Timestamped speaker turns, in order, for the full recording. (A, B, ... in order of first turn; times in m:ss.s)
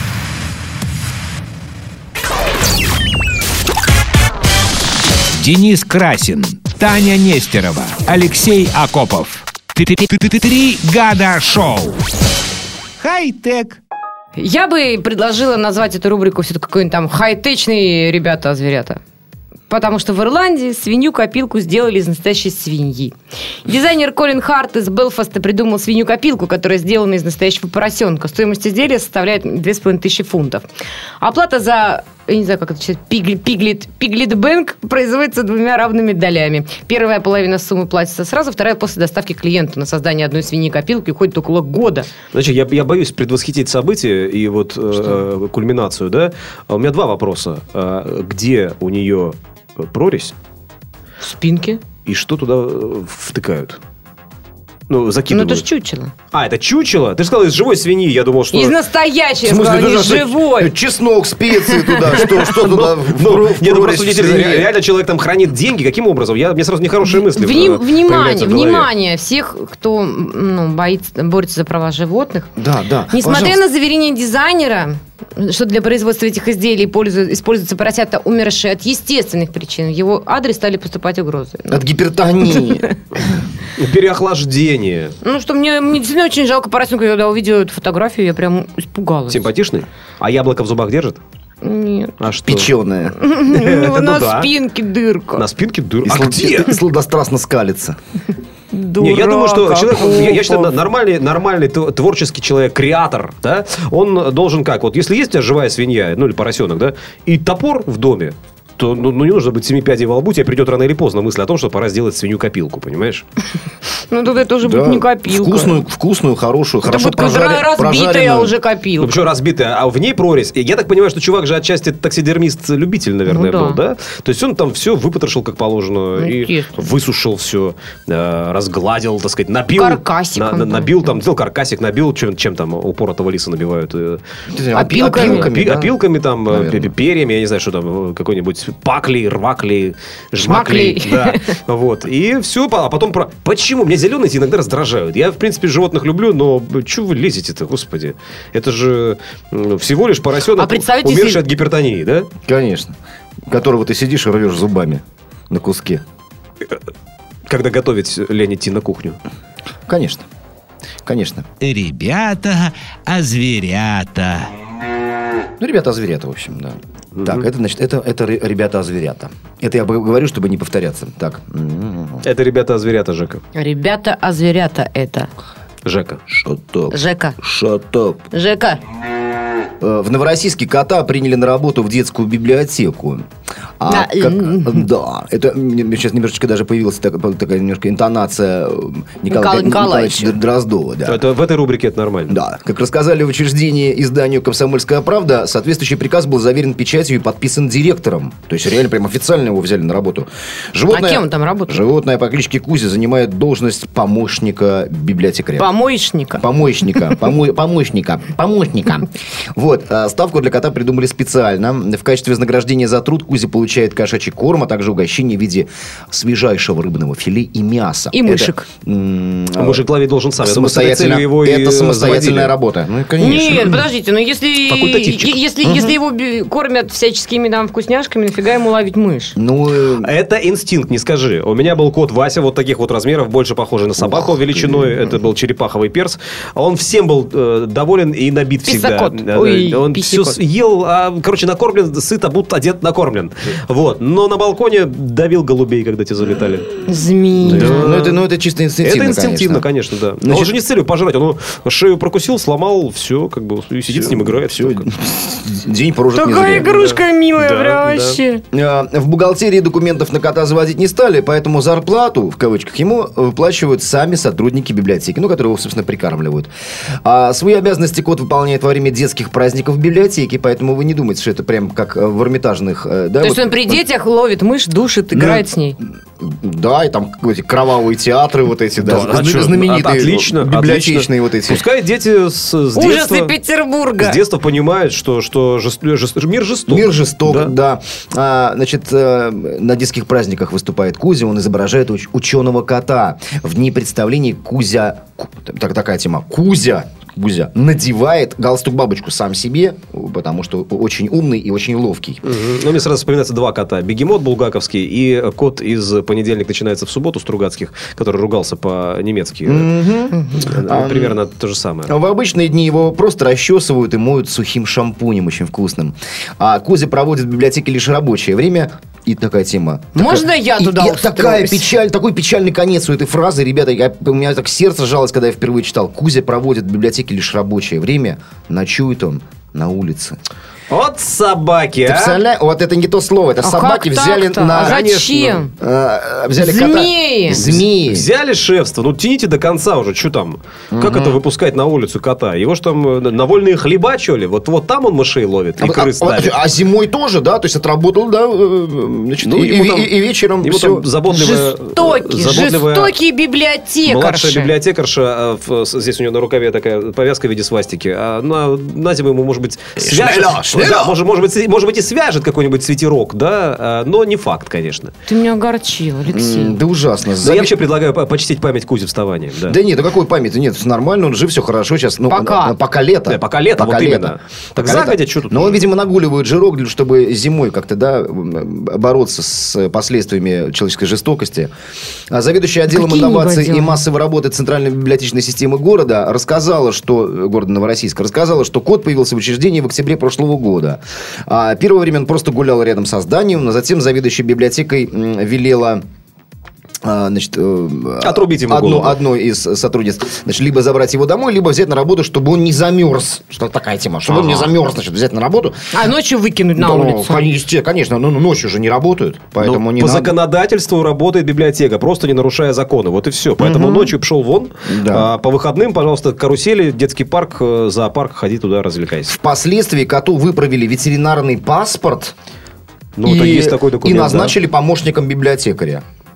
0:05.4-0:12.0 A
0:13.0-0:13.8 A
0:14.4-0:19.0 B
0:19.7-0:23.1 B
0:23.6-0:30.7 B
0:31.2-0:42.1 B
0:42.3-0:50.3 C
0:51.2-0:51.8 B
0:52.0-0:53.8 C
0:54.9-0:55.6 C
0:55.3-0:56.1 B
0:56.3-0:58.8 C
0:58.5-1:00.7 B
0:59.4-1:04.7 D
1:01.5-1:02.4 B
1:02.2-1:08.9 C
1:07.2-1:12.5 B
1:12.6-1:13.6 D
1:13.1-1:21.9 B
1:21.7-1:22.9 D
1:22.4-1:22.9 B
1:23.8-1:25.2 C
1:25.2-1:29.5 B
1:29.3-1:31.2 C
1:31.6-1:32.2 B
1:32.2-1:32.7 C
1:32.4-1:33.2 D
1:33.2-1:35.4 B
1:33.5-1:34.5 C
1:35.4-1:36.8 C
1:36.0-1:38.0 D
1:38.7-1:40.7 B
1:39.0-1:53.2 C
1:54.1-1:55.8 B
1:54.6-1:58.6 D
1:56.8-1:59.2 B
1:59.0-2:14.2 C
2:03.3-2:03.8 B
2:06.2-2:06.8 B
2:09.8-2:11.2 B
2:14.5-2:16.0 D
2:14.8-2:15.5 B
2:14.9-2:32.3 C
2:16.5-2:16.9 D
2:20.4-2:21.4 B
2:30.5-2:31.4 B
2:32.4-2:32.9 D
2:33.5-2:36.0 D
2:37.5-2:39.2 C
2:39.9-2:40.2 D
2:41.0-2:41.4 D
2:41.6-2:44.5 A
2:45.6-2:52.2 D
2:47.2-2:47.5 C
2:52.2-2:53.4 C
2:53.5-2:55.3 B
2:55.8-2:56.2 C
2:56.3-2:58.2 D
2:56.9-2:57.4 B
2:58.3-2:58.8 B
2:59.8-3:03.2 D
3:03.8-3:11.2 D
3:03.9-3:04.8 B
3:09.3-3:10.3 B
3:11.0-3:12.4 C
3:12.3-3:25.7 D
3:20.9-3:21.8 B
3:25.6-3:26.4 B
3:26.3-3:39.8 D
3:38.1-3:38.7 B
3:39.6-3:42.5 C
3:40.4-3:43.9 D
3:43.2-3:49.3 B
3:44.7-3:45.4 C
3:45.6-3:46.0 D
3:49.4-3:50.1 D
3:50.0-4:06.8 C
3:54.0-3:55.0 D
3:58.6-4:00.4 B
4:06.9-4:07.9 B
4:07.4-4:09.6 D
4:07.5-4:08.2 C
4:08.8-4:14.9 C
4:10.2-4:10.5 D
4:13.9-4:16.7 D
4:16.1-4:18.4 B
4:16.6-4:18.2 C
4:18.5-4:26.5 D
4:27.0-4:33.8 D
4:33.2-4:35.8 B
4:35.1-4:35.4 D
4:36.2-4:41.6 D
4:38.8-4:43.3 C
4:42.8-4:44.2 B
4:44.0-4:47.6 C
4:46.7-5:02.2 D
5:02.2-5:09.7 C
5:09.4-5:11.2 D
5:10.1-5:10.5 B
5:10.4-5:11.9 C
5:11.9-5:30.2 D
5:20.0-5:21.7 B
5:30.7-5:32.2 C
5:31.8-5:34.8 D
5:33.4-5:35.5 B
5:34.5-5:35.4 C
5:35.6-5:38.1 D
5:36.3-5:37.4 B
5:37.3-5:46.4 C
5:40.7-5:41.2 D
5:45.6-5:50.9 D
5:49.2-5:53.0 C
5:51.1-5:54.5 B
5:53.8-6:04.9 C
5:59.8-6:00.9 D
6:05.1-6:06.6 B
6:06.1-6:07.6 D
6:07.2-6:09.6 C
6:09.4-6:21.5 D
6:12.1-6:12.6 B
6:13.1-6:15.6 C
6:22.1-6:35.8 D
6:22.7-6:23.8 B
6:36.8-6:45.6 D
6:38.0-6:39.0 C
6:44.1-6:44.5 B
6:45.7-6:47.2 B
6:46.6-6:50.1 D
6:49.4-6:59.2 C
6:54.6-6:55.1 D
6:59.1-7:02.1 D
7:03.0-7:04.4 C
7:03.0-7:05.8 D